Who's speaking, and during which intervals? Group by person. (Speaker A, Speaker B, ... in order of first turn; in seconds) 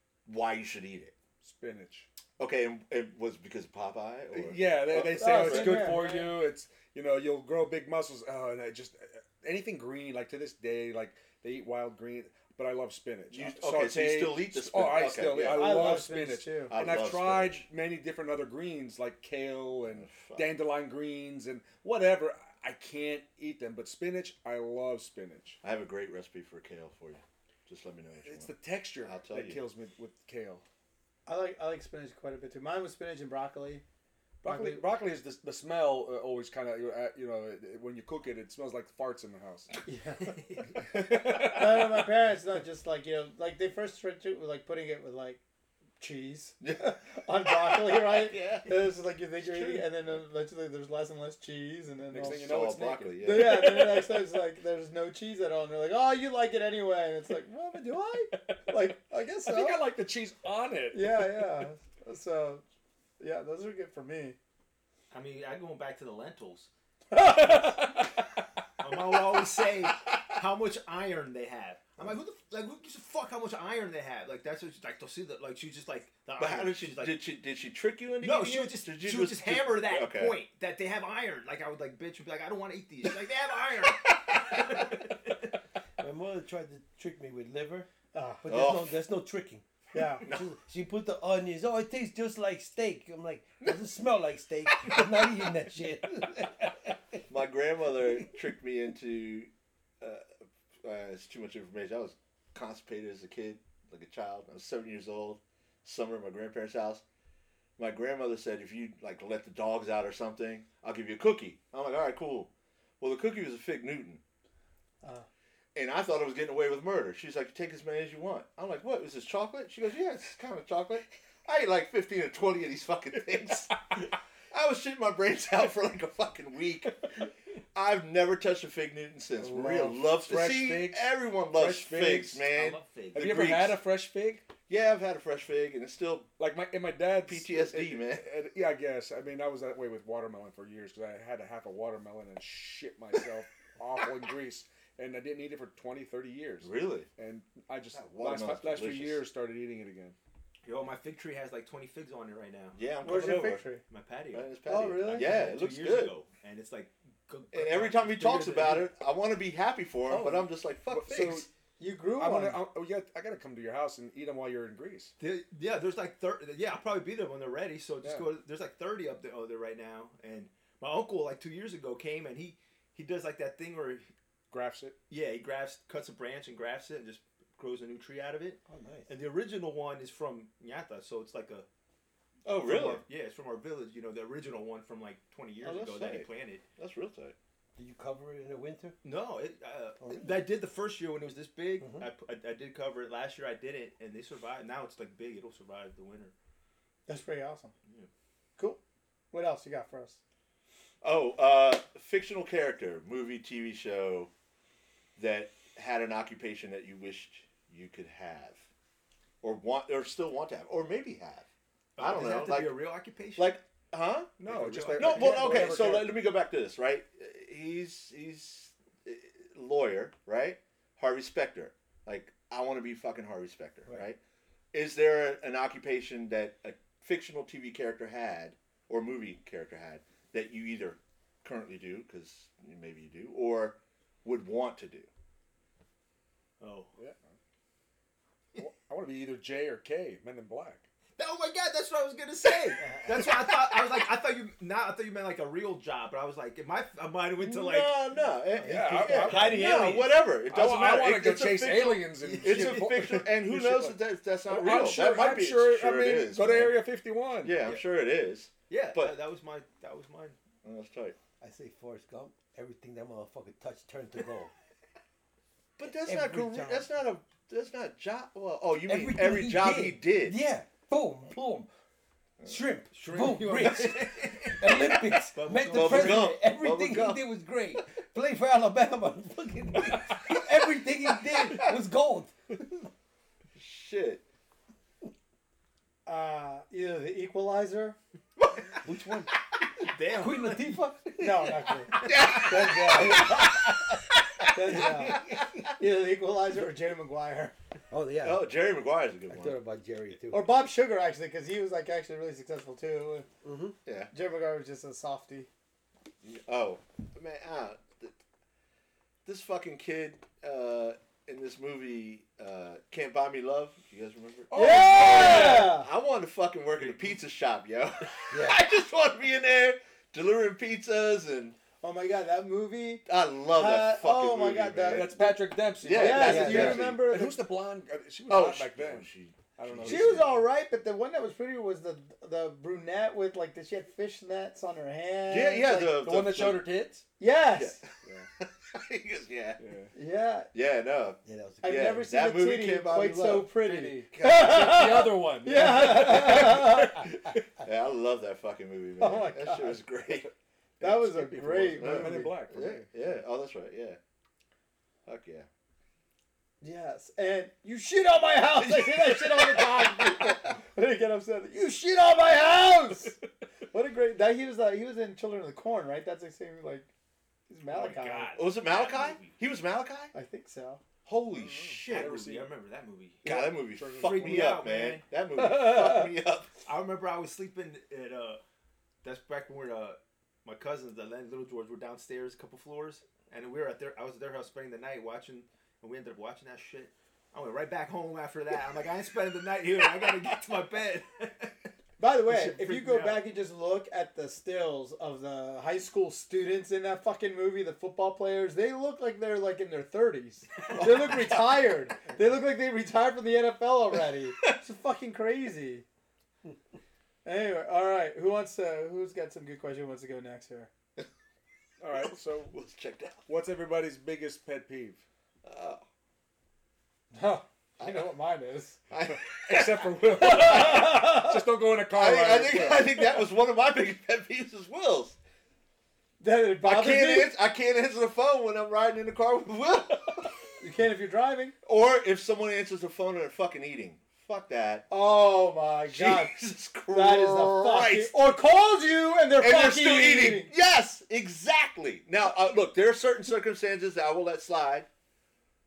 Speaker A: 0.3-1.1, 2.4-6.1, 13.3-16.0, 16.7-17.6, 19.9-20.5, 25.6-28.5, 29.0-29.6, 46.6-48.8, 49.4-49.9, 52.2-53.7, 76.4-80.4, 84.3-84.8, 88.5-89.0, 90.2-90.5, 97.3-100.3, 100.8-107.0, 107.8-114.2, 115.8-133.8, 134.7-136.3, 137.3-138.3, 146.6-147.1, 147.9-149.2, 152.8-153.7, 154.3-156.1, 157.5-161.5, 182.4-183.0, 185.6-187.3, 201.0-204.3, 205.2-208.7, 209.4-211.5, 212.0-212.8, 213.4-214.3, 214.9-224.2, 224.7-235.1, 247.4-256.8, 257.4-259.2, 260.6-261.2, 265.8-270.4, 275.7-277.3, 283.6-284.2, 292.0-293.5, 294.8-295.6, 298.2-299.6, 303.9-304.1, 306.2-308.1, 309.2-321.6, 323.1-325.2, 325.8-327.0, 328.3-330.3, 335.3-336.6, 337.6-339.6, 340.5-343.5, 344.1-345.1, 347.5-350.3, 351.8-354.0, 355.1-355.5, 358.6-360.6, 368.4-370.1, 371.1-372.1, 373.2-376.5, 400.8-401.4, 412.1-413.3, 415.4-415.8, 417.8-418.1, 418.9-421.0, 421.9-425.2, 426.6-430.4, 431.6-434.9, 435.9-438.1, 439.4-444.9
Speaker B: 1.4-2.1, 4.3-25.6, 28.2-30.6, 34.4-39.8, 40.8-42.1, 52.1-54.3, 58.3-58.8, 59.5-61.6, 67.2-68.1, 129.4-132.5, 133.2-134.5, 136.4-150.2, 160.9-161.5, 162.2-165.1, 174.5-174.9, 214.4-216.2, 238.6-240.9, 248.6-249.8, 250.5-257.6, 314.5-315.8, 324.9-330.4, 335.9-337.1, 339.6-339.9, 343.5-347.1, 350.8-352.9, 371.3-372.5, 373.2-374.6, 411.8-412.6, 413.3-415.0, 419.1-423.1
Speaker C: 4.9-6.4, 15.4-16.7, 31.3-33.8, 34.5-34.9, 39.9-40.4, 41.4-45.4, 46.0-52.6, 53.2-59.8, 60.9-62.6, 63.2-64.4, 67.1-67.8, 88.1-88.5, 89.9-90.3, 153.0-153.8, 154.7-155.3, 161.8-162.6, 197.1-197.7, 199.3-200.2, 286.1-288.0, 291.2-293.3, 294.5-297.5, 300.3-303.3, 304.1-305.5, 314.5-315.9, 321.8-327.4, 329.8-336.1, 337.2-337.8, 339.9-340.5, 341.6-347.1, 349.0-349.8, 350.8-352.4, 356.6-363.2, 363.7-366.9, 367.5-368.3, 370.1-370.8, 375.4-376.1, 392.0-405.9, 407.2-410.7, 417.1-418.8, 420.2-421.3, 426.2-427.3, 430.6-431.6, 434.9-440.5
Speaker D: 40.4-40.6, 65.1-66.7, 68.8-77.2, 78.2-85.5, 132.5-133.4, 150.7-153.3, 153.9-158.9, 160.1-160.4, 165.2-174.1, 175.1-181.7, 182.5-186.6, 189.0-196.3, 212.0-213.6, 214.4-215.8, 236.6-236.9, 241.2-248.4, 248.9-250.2, 252.2-253.2, 258.7-260.4, 272.9-276.4, 288.4-290.8, 291.9-292.4, 316.8-317.1, 367.7-369.4, 371.8-373.4, 373.9-375.1, 376.6-378.4, 379.0-391.7, 392.3-393.2
Speaker E: 86.0-87.9, 88.4-89.7, 90.2-97.2, 178.7-179.1, 187.8-189.0, 190.0-190.4, 191.8-192.1, 248.9-249.3, 261.4-264.5, 265.9-266.9, 268.9-271.7, 272.4-282.9, 288.8-289.3, 290.1-292.4, 292.9-294.0, 294.8-295.2, 297.9-298.4, 299.3-300.5, 303.4-303.8, 318.3-318.6, 326.1-326.8, 341.3-342.0